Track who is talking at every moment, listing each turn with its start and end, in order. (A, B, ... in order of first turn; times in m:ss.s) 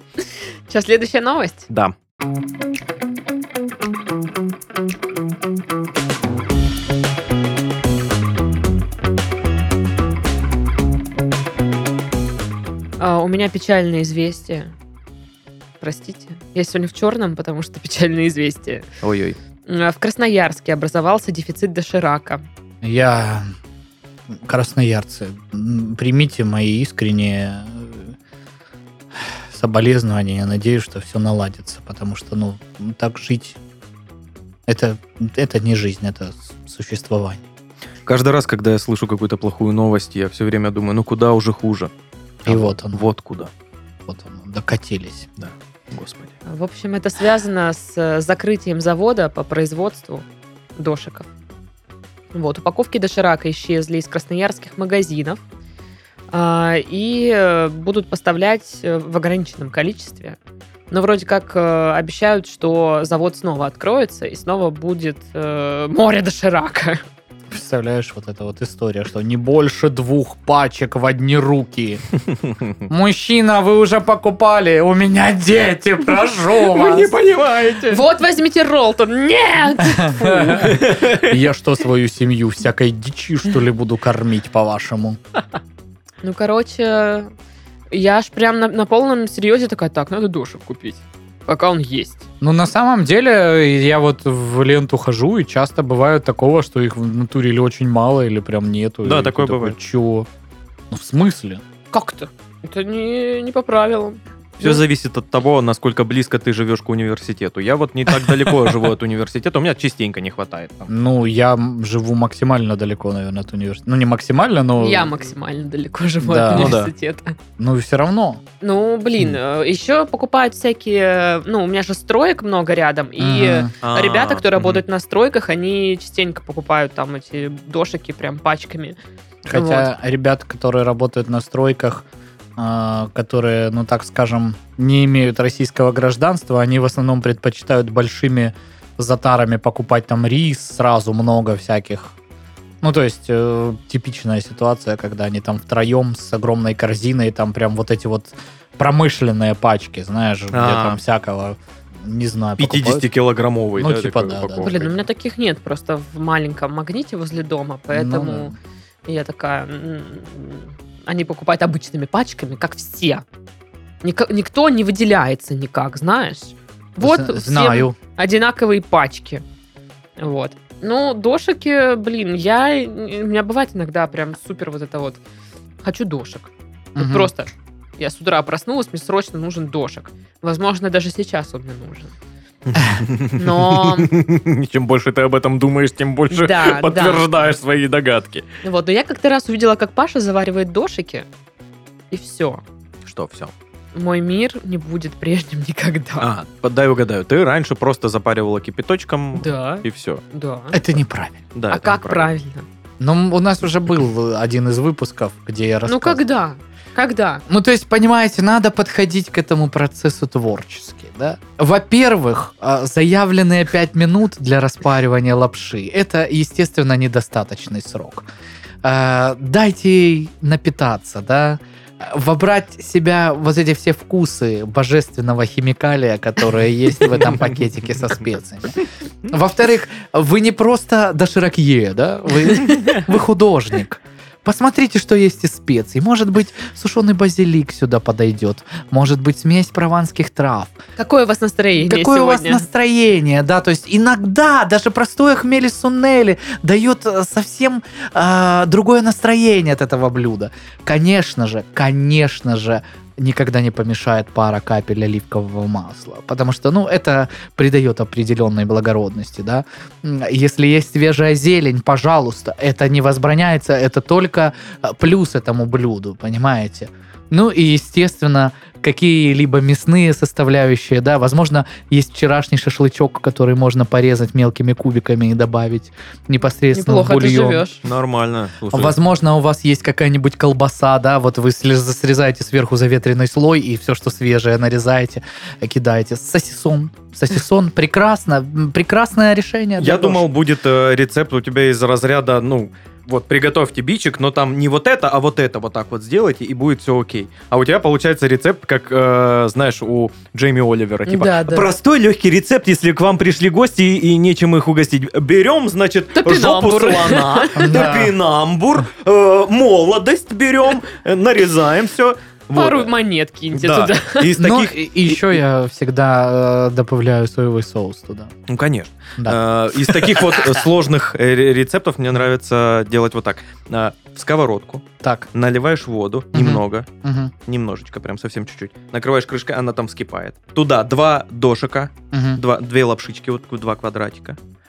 0:00.7-0:01.7 A
0:13.0-0:14.7 A
0:15.8-0:18.9 A
0:19.0-0:19.4 B
0:19.6-0:22.4 A
0:22.8-0:23.5 C
0:24.3-0:28.1 C
0:29.2-0:33.6 C
0:34.7-0:37.4 C
0:38.0-0:41.9 B
0:42.4-0:43.5 B
0:42.4-0:43.0 C
0:44.1-0:45.3 C
0:45.4-0:46.3 B
0:46.4-0:50.2 A
0:50.8-0:51.3 A
0:52.3-0:55.4 A
0:56.3-1:00.4 A
1:00.9-1:07.0 A
1:07.5-1:12.0 C
1:12.9-1:17.1 C
1:16.6-1:18.0 B
1:17.9-1:20.9 A
1:20.0-1:25.2 C
1:20.7-1:21.3 B
1:26.2-1:27.3 A
1:27.9-1:32.2 A
1:32.4-1:40.3 C
1:39.0-1:39.8 B
1:40.9-1:41.6 C
1:41.9-1:44.8 A
1:44.6-1:50.9 B
1:50.9-1:55.1 C
1:54.8-1:57.4 A
1:56.2-1:56.8 C
1:56.5-1:56.9 B
1:57.6-1:58.4 C
1:58.6-2:09.0 A
2:03.2-2:03.7 C
2:03.8-2:04.8 B
2:09.4-2:12.0 C
2:09.5-2:09.9 A
2:12.6-2:22.1 C
2:22.8-2:33.0 C
2:30.5-2:31.0 B
2:32.6-2:35.0 B
2:33.8-2:34.8 C
2:34.6-2:38.5 A
2:37.9-2:38.5 C
2:39.0-2:43.2 A
2:44.0-2:49.4 A
2:47.0-2:48.0 C
2:50.2-2:55.2 A
2:55.8-3:02.1 A
2:57.0-2:57.3 C
3:02.7-3:08.5 B
3:03.4-3:04.1 A
3:06.3-3:07.2 A
3:08.6-3:11.3 A
3:12.1-3:12.6 A
3:13.0-3:13.5 B
3:13.9-3:16.3 A
3:16.2-3:20.2 B
3:19.3-3:20.8 A
3:20.7-3:21.4 C
3:21.5-3:22.3 B
3:21.7-3:22.6 A
3:23.0-3:26.2 C
3:25.8-3:27.4 A
3:27.5-3:38.2 C
3:38.8-4:00.8 C
4:01.0-4:02.6 A
4:01.8-4:37.6 C
4:36.7-4:37.8 A
4:37.8-4:38.9 B
4:38.7-4:50.3 C
4:49.8-5:12.9 B
5:01.0-5:01.7 A
5:06.1-5:07.8 A
5:07.6-5:08.2 C
5:12.5-5:14.3 A
5:13.5-5:15.4 B
5:14.3-5:18.3 C
5:18.5-5:26.9 B
5:19.2-5:20.5 C
5:25.0-5:25.3 C
5:26.3-5:27.3 C
5:27.4-5:34.4 B
5:32.1-5:32.4 C